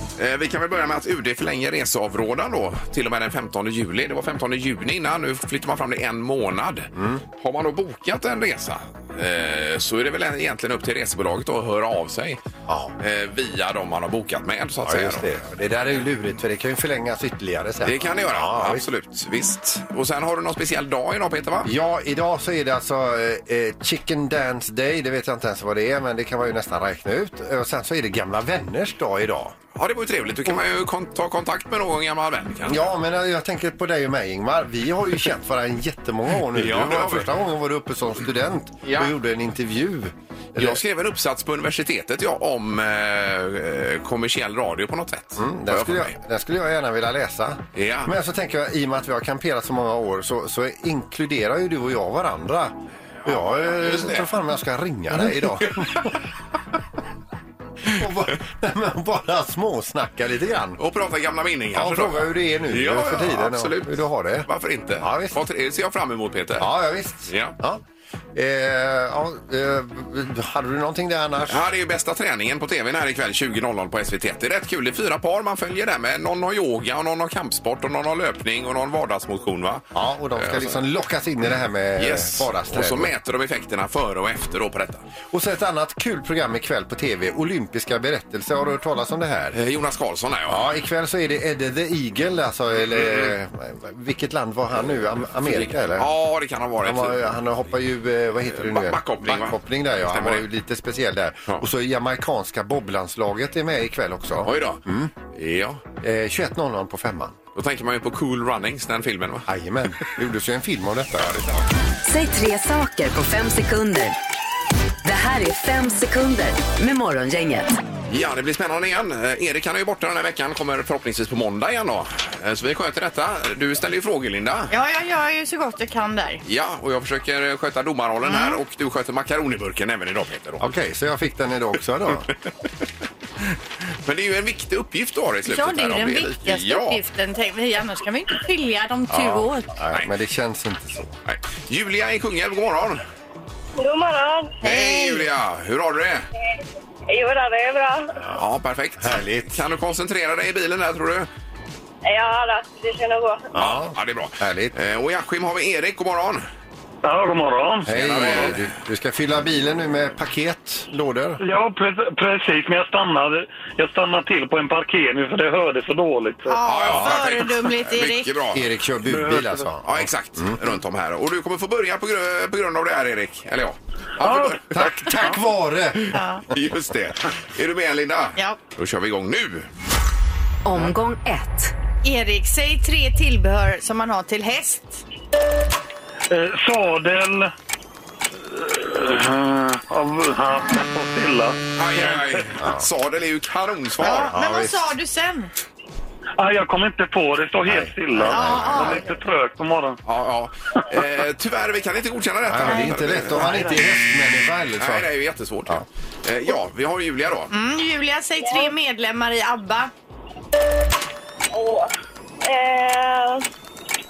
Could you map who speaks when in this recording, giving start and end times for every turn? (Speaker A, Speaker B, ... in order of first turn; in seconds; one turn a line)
Speaker A: 0.2-12.4
Speaker B: 6.9-7.2
Speaker B: 12.7-13.0
Speaker A: 13.0-15.3
Speaker B: 14.8-18.8
Speaker A: 17.8-21.7
Speaker B: 21.6-29.6
Speaker A: 29.8-32.9
Speaker B: 32.7-40.8
Speaker A: 36.5-37.3
Speaker A: 38.9-39.1
Speaker A: 40.6-46.1
Speaker B: 45.4-56.0
Speaker A: 47.7-48.1
Speaker A: 53.2-54.3
Speaker A: 55.2-56.2
Speaker B: 57.9-60.8
Speaker A: 60.8-66.7
Speaker B: 61.7-65.4
Speaker B: 66.6-67.8
Speaker A: 67.3-67.5
Speaker B: 68.3-71.7
Speaker A: 71.4-80.8
Speaker B: 79.9-83.1
Speaker A: 82.0-85.1
Speaker B: 85.3-89.6
Speaker A: 89.5-90.7
Speaker B: 90.5-96.1
Speaker A: 95.4-97.2
Speaker B: 96.8-105.1
Speaker A: 98.5-100.5
Speaker A: 104.4-105.8
Speaker B: 106.0-107.4
Speaker A: 107.5-109.5
Speaker B: 109.5-111.4
Speaker A: 111.2-111.6
Speaker C: 112.0-114.2
Speaker C: 115.0-117.7
Speaker A: 118.1-124.7
Speaker D: 124.7-126.4
Speaker A: 126.5-130.7
Speaker D: 128.2-128.6
Speaker B: 130.6-132.3
Speaker A: 134.1-137.0
Speaker D: 135.5-139.7
Speaker A: 139.1-140.1
Speaker B: 139.8-141.2
Speaker A: 141.3-143.0
Speaker E: 143.8-144.6
Speaker D: 144.6-145.2
Speaker A: 144.7-146.3
Speaker E: 146.4-148.2
Speaker A: 148.3-151.3
Speaker B: 149.0-149.6
Speaker E: 152.0-153.5
Speaker B: 153.5-154.7
Speaker A: 153.6-156.4
Speaker F: 157.0-158.0
Speaker B: 157.9-161.4
Speaker A: 157.9-158.7
Speaker F: 161.4-166.6
Speaker D: 166.5-168.3
Speaker A: 166.7-168.7
Speaker B: 168.5-170.6
Speaker F: 169.1-169.7
Speaker A: 169.8-175.4
Speaker F: 174.2-174.6
Speaker B: 174.7-176.1
Speaker A: 176.0-179.7
Speaker D: 176.1-176.4
Speaker C: 180.7-181.7
Speaker D: 182.0-185.0
Speaker F: 186.3-187.5
Speaker F: 188.4-192.4
Speaker A: 191.8-194.3
Speaker B: 192.6-192.9
Speaker D: 194.0-195.5
Speaker B: 194.1-194.8
Speaker F: 196.4-200.0
Speaker B: 197.7-199.0
Speaker D: 198.2-199.1
Speaker A: 200.1-203.7
Speaker B: 202.5-205.1
Speaker F: 203.3-203.8
Speaker A: 204.8-207.5
Speaker D: 207.5-209.9
Speaker E: 208.4-208.7
Speaker E: 211.5-211.9
Speaker E: 212.4-213.4